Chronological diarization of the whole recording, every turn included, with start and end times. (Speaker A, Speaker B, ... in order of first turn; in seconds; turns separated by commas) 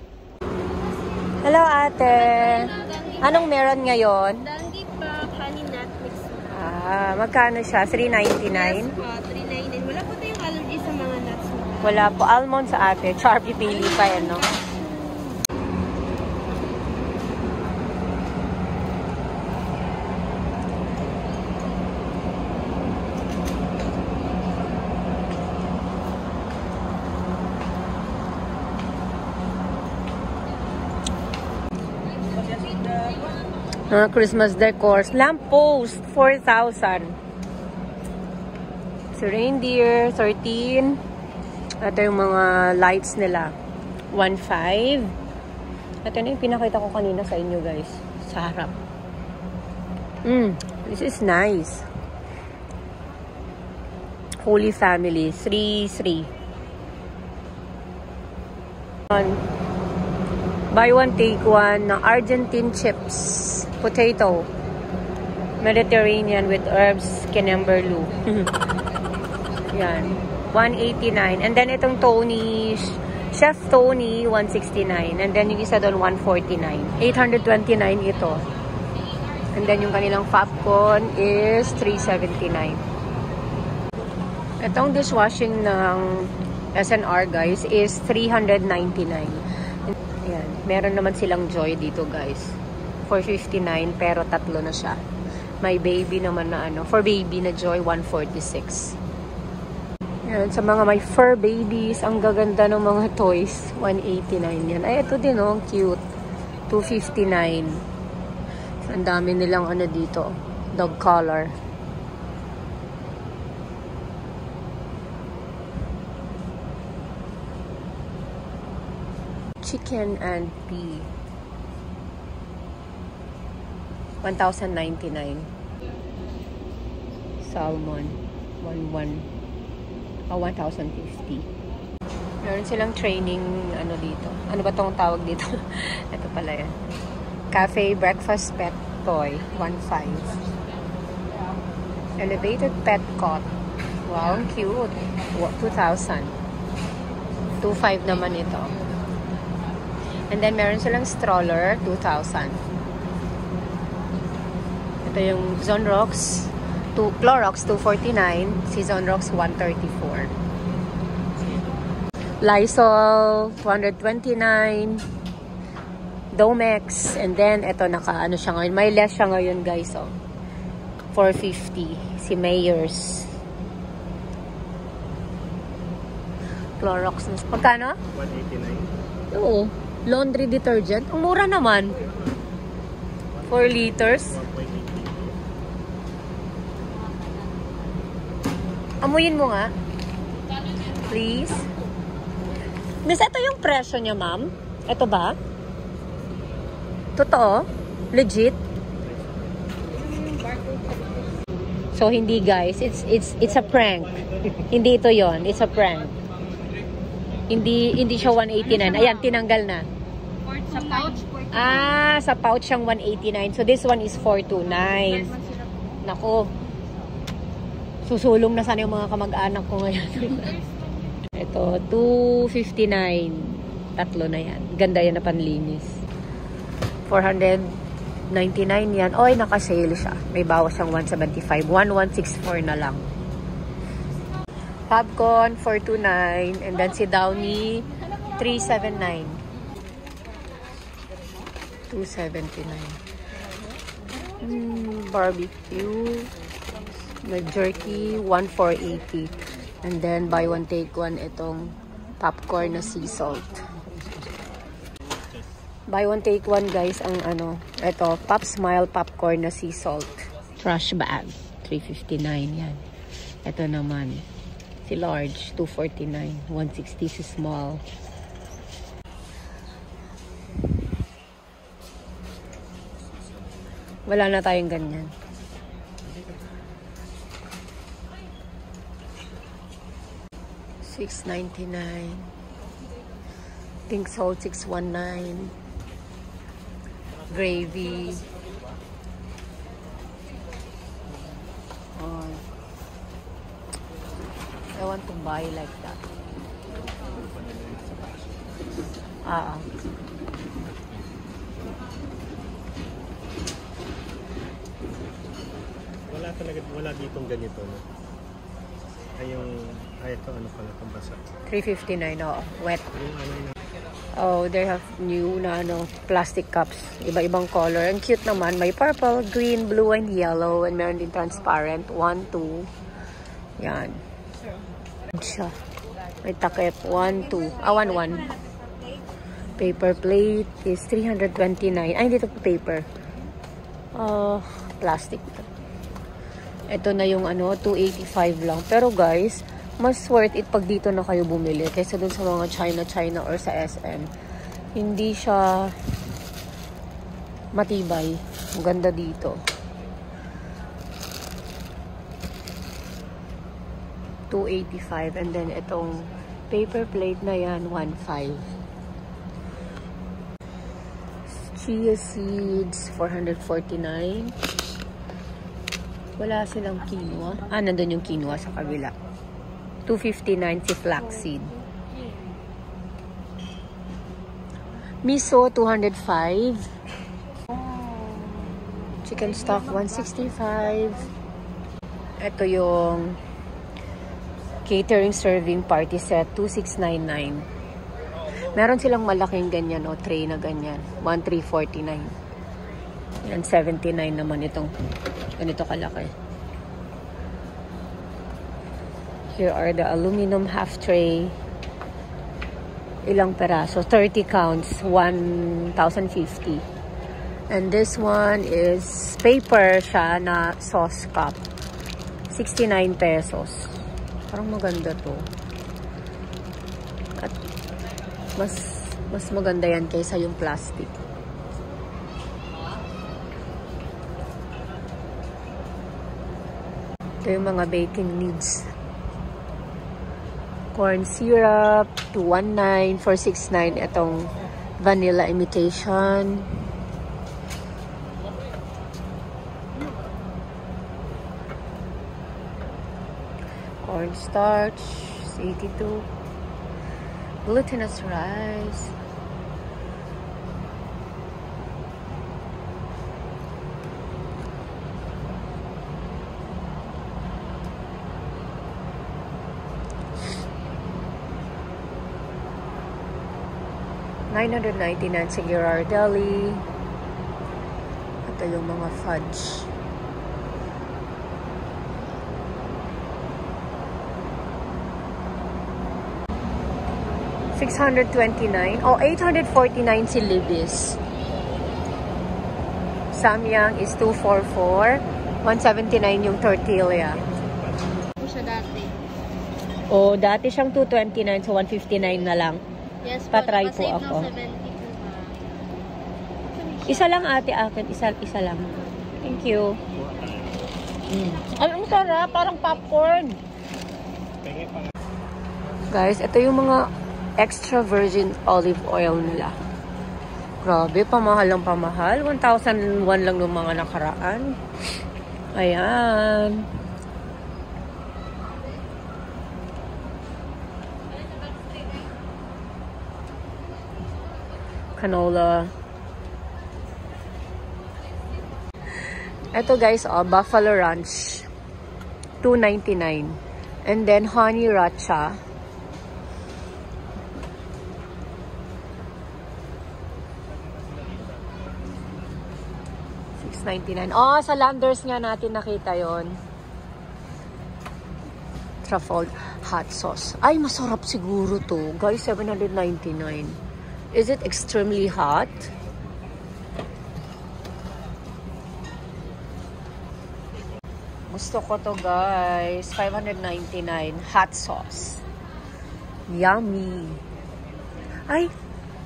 Speaker A: 1.4-4.4, Speaker B: 2.1-3.5, Speaker B: 4.4-6.5, Speaker A: 6.5-8.9, Speaker B: 8.3-12.0, Speaker A: 11.8-14.5, Speaker B: 13.7-14.8, Speaker A: 33.9-37.2, Speaker A: 39.1-41.0, Speaker A: 41.8-43.5, Speaker A: 44.1-45.1, Speaker A: 46.0-48.7, Speaker A: 50.2-51.9, Speaker A: 54.4-56.3, Speaker A: 59.1-59.4, Speaker A: 60.7-64.5, Speaker A: 65.6-68.5, Speaker A: 69.7-78.5, Speaker A: 79.5-82.8, Speaker A: 84.6-92.6, Speaker A: 93.1-95.0, Speaker A: 95.6-99.0, Speaker A: 100.2-106.0, Speaker A: 106.7-107.8, Speaker A: 108.9-111.5, Speaker A: 119.6-121.1, Speaker A: 124.2-125.5, Speaker A: 127.4-129.3, Speaker A: 130.3-131.5, Speaker A: 132.4-136.8, Speaker A: 137.5-140.3, Speaker A: 142.2-143.5, Speaker A: 144.1-146.3, Speaker A: 147.6-148.7, Speaker A: 150.3-152.6, Speaker A: 155.0-160.3, Speaker A: 162.4-165.0, Speaker A: 166.3-170.2, Speaker A: 171.1-173.3, Speaker A: 176.8-178.0, Speaker C: 178.1-178.9, Speaker A: 179.3-182.0, Speaker C: 183.4-185.4, Speaker A: 183.5-184.4, Speaker A: 189.0-189.7, Speaker A: 191.0-191.6, Speaker A: 193.0-195.4, Speaker A: 197.2-198.6, Speaker B: 200.0-201.1, Speaker A: 201.9-206.2, Speaker A: 207.5-209.9, Speaker B: 208.7-209.2, Speaker B: 210.5-212.0, Speaker A: 211.5-215.3, Speaker B: 215.0-215.7, Speaker A: 216.0-216.5, Speaker A: 218.1-220.6, Speaker A: 221.4-226.0, Speaker A: 227.1-227.7, Speaker A: 228.3-233.0, Speaker A: 234.9-239.4, Speaker A: 241.9-243.0, Speaker A: 244.4-246.3, Speaker A: 247.2-253.7, Speaker C: 255.1-255.5, Speaker A: 255.9-262.8, Speaker A: 263.4-264.2, Speaker A: 264.9-267.8, Speaker C: 272.4-273.9, Speaker A: 274.1-275.1, Speaker C: 276.0-276.8, Speaker A: 280.8-282.3, Speaker A: 283.9-285.5, Speaker A: 287.3-288.2, Speaker A: 292.0-292.4, Speaker A: 294.8-296.0, Speaker C: 296.9-298.9, Speaker A: 299.2-299.6, Speaker C: 300.6-301.3, Speaker C: 306.1-307.8, Speaker C: 309.2-311.2, Speaker A: 311.5-312.9, Speaker C: 312.9-313.6, Speaker A: 314.1-322.7, Speaker A: 323.6-324.0, Speaker A: 325.1-325.6, Speaker A: 326.2-328.3, Speaker A: 329.6-332.9, Speaker A: 333.9-335.5, Speaker A: 336.7-344.1, Speaker A: 344.8-345.8, Speaker A: 347.6-349.4, Speaker A: 354.3-358.5, Speaker A: 361.4-364.4, Speaker A: 366.2-368.9, Speaker A: 369.9-371.5, Speaker A: 375.0-376.7, Speaker A: 379.0-381.1, Speaker A: 382.2-383.2, Speaker A: 384.6-387.5, Speaker A: 388.4-392.1, Speaker A: 393.2-394.7, Speaker A: 395.4-396.1, Speaker A: 399.3-401.4, Speaker A: 403.1-406.6, Speaker A: 407.5-411.4, Speaker A: 412.3-413.7, Speaker A: 414.3-415.3, Speaker A: 418.4-421.0, Speaker A: 427.2-428.7, Speaker A: 430.8-436.5, Speaker A: 443.9-446.1, Speaker A: 447.5-448.9, Speaker A: 464.3-466.6, Speaker A: 468.3-469.7, Speaker A: 477.6-481.0, Speaker A: 483.1-487.2, Speaker C: 487.1-488.0, Speaker B: 488.2-488.9, Speaker A: 489.9-492.6, Speaker B: 493.0-495.4, Speaker A: 493.3-494.3, Speaker B: 496.6-497.1, Speaker A: 496.9-499.8, Speaker C: 499.9-500.8, Speaker A: 501.1-503.4, Speaker C: 504.4-504.9, Speaker A: 505.9-506.9, Speaker A: 507.4-509.6, Speaker A: 510.6-514.6, Speaker A: 515.5-516.7, Speaker A: 525.0-525.7, Speaker A: 529.5-531.5, Speaker A: 532.4-535.4, Speaker C: 540.5-542.4, Speaker A: 543.4-546.4, Speaker A: 548.8-553.6, Speaker A: 554.1-555.7, Speaker A: 561.3-565.2, Speaker A: 566.3-567.2